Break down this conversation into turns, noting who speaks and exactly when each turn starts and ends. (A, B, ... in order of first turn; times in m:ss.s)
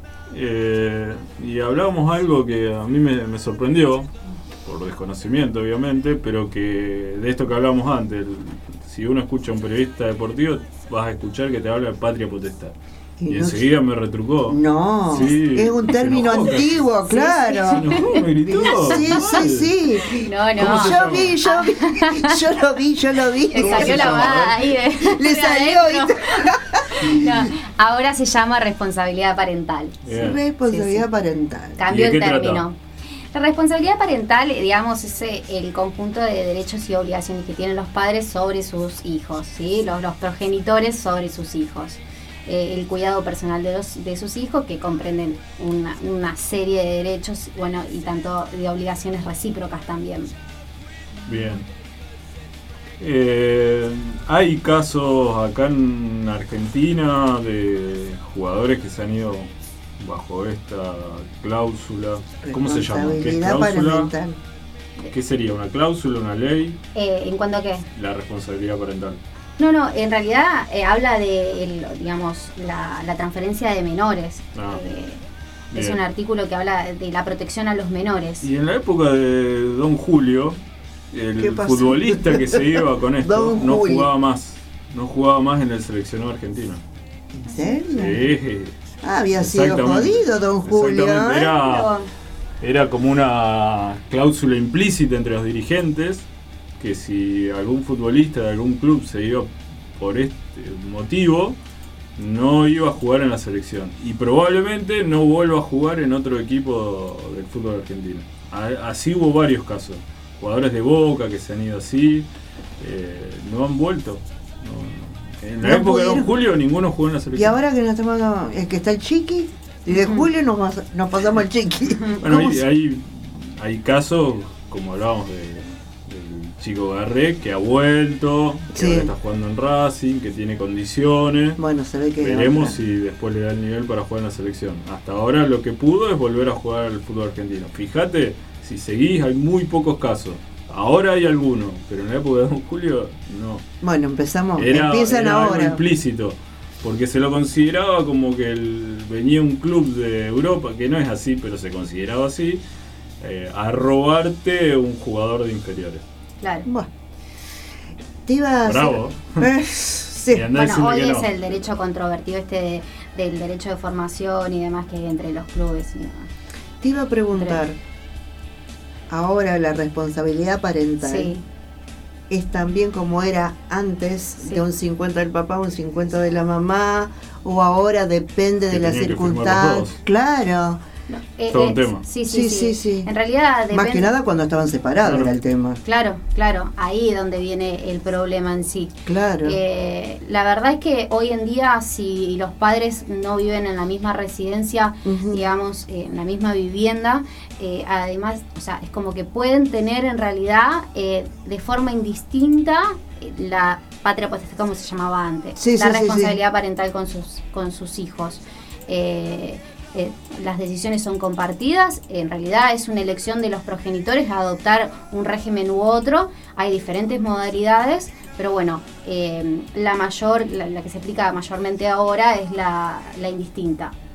0:00.3-0:04.1 A
0:04.6-0:12.7 A
0:13.2-0:13.7 B
0:13.3-0:17.0 A
0:14.5-0:24.4 B
0:17.1-0:18.2 C
0:17.5-0:19.7 A
0:20.0-0:22.6 C
0:20.6-0:21.4 A
0:23.5-0:30.0 C
0:23.5-0:24.6 A
0:25.0-0:27.4 B
0:30.0-0:30.4 A
0:30.1-0:31.8 B
0:30.7-0:31.0 C
0:31.8-0:32.8 C
0:31.9-0:32.6 A
0:33.3-0:50.3 C
0:51.2-0:51.6 A
0:53.0-1:04.1 A
1:02.4-1:04.4 B
1:05.1-1:06.8 A
1:06.9-1:07.8 C
1:07.9-1:09.2 A
1:09.6-1:18.4 C
1:14.5-1:14.8 A
1:15.7-1:16.0 A
1:18.4-1:20.6 A
1:21.1-1:26.8 A
1:21.4-1:24.1 B
1:27.3-1:28.3 B
1:27.9-1:28.8 A
1:29.0-1:31.6 B
1:29.3-1:31.9 A
1:31.6-1:32.1 C
1:32.6-1:36.2 A
1:36.8-1:41.6 A
1:42.2-1:52.3 A
1:52.8-1:57.6 A
1:55.6-1:56.4 B
1:57.3-2:02.6 B
1:59.9-2:00.3 C
2:02.2-2:11.6 A
2:08.7-2:09.1 B
2:11.6-2:12.8 B
2:12.2-2:23.6 A
2:23.8-2:25.8 B
2:24.6-2:32.6 A
2:33.2-2:36.0 A
2:36.4-2:36.7 C
2:38.2-2:40.5 B
2:38.6-2:39.5 A
2:40.3-2:41.4 A
2:40.5-2:46.3 C
2:46.8-2:47.8 B
2:47.3-2:47.6 C
2:49.1-2:51.3 B
2:51.0-2:51.4 C
2:52.3-3:00.8 B
2:58.7-3:00.0 A
3:01.1-3:04.1 C
3:01.5-3:02.0 A
3:02.2-3:03.1 B
3:03.7-3:05.8 B
3:05.0-3:05.3 A
3:05.8-3:43.9 C
3:09.0-3:09.6 B
3:15.0-3:15.4 B
3:25.6-3:26.4 B